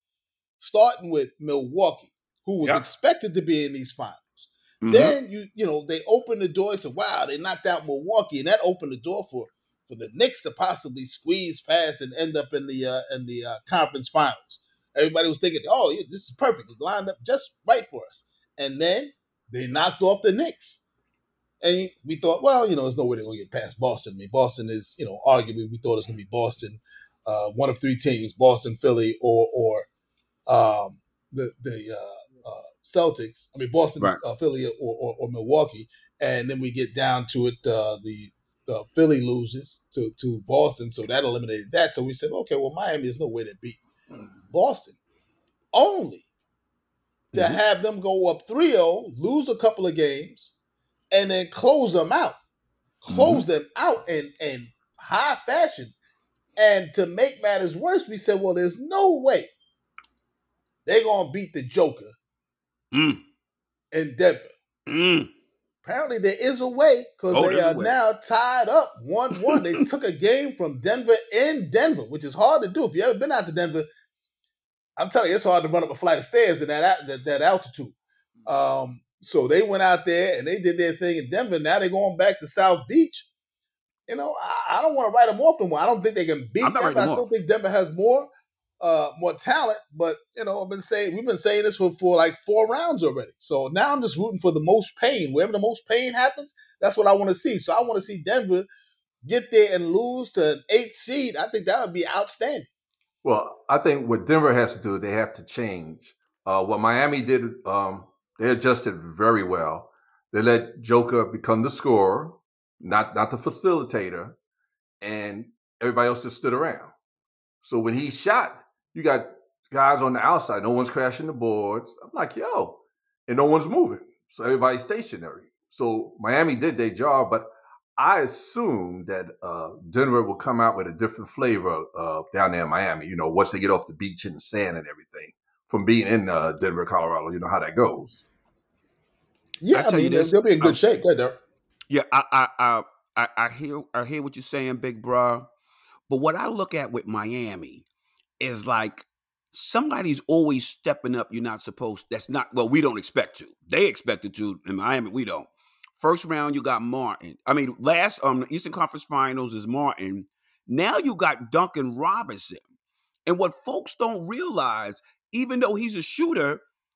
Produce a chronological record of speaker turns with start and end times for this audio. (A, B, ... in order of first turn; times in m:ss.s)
0:00.6-0:20.8 A
0:04.8-0:05.2 B
0:21.6-0:29.9 A
0:30.5-0:43.8 A
0:44.5-0:45.0 A
0:45.7-0:46.3 A
0:47.3-0:47.6 B
0:47.3-0:50.5 A
0:51.1-0:52.4 A
0:53.0-0:55.9 A
0:53.1-0:53.4 B
0:56.6-0:59.5 A
1:00.8-1:02.1 A
1:02.9-1:03.2 B
1:03.9-1:04.5 A
1:04.9-1:05.3 B
1:05.8-1:13.9 A
1:07.3-1:07.9 B
1:09.4-1:09.7 B
1:15.0-1:17.9 A
1:18.4-1:23.3 A
1:24.1-1:28.3 A
1:26.6-1:27.3 B
1:28.8-1:38.7 A
1:39.2-1:42.7 A
1:43.2-1:54.4 C
1:55.0-1:56.9 C
1:57.6-2:18.3 C
2:19.6-2:21.4 A
2:19.7-2:20.8 B
2:21.9-2:25.5 B
2:26.1-2:27.8 B
2:28.4-2:42.6 B
2:43.3-2:46.6 B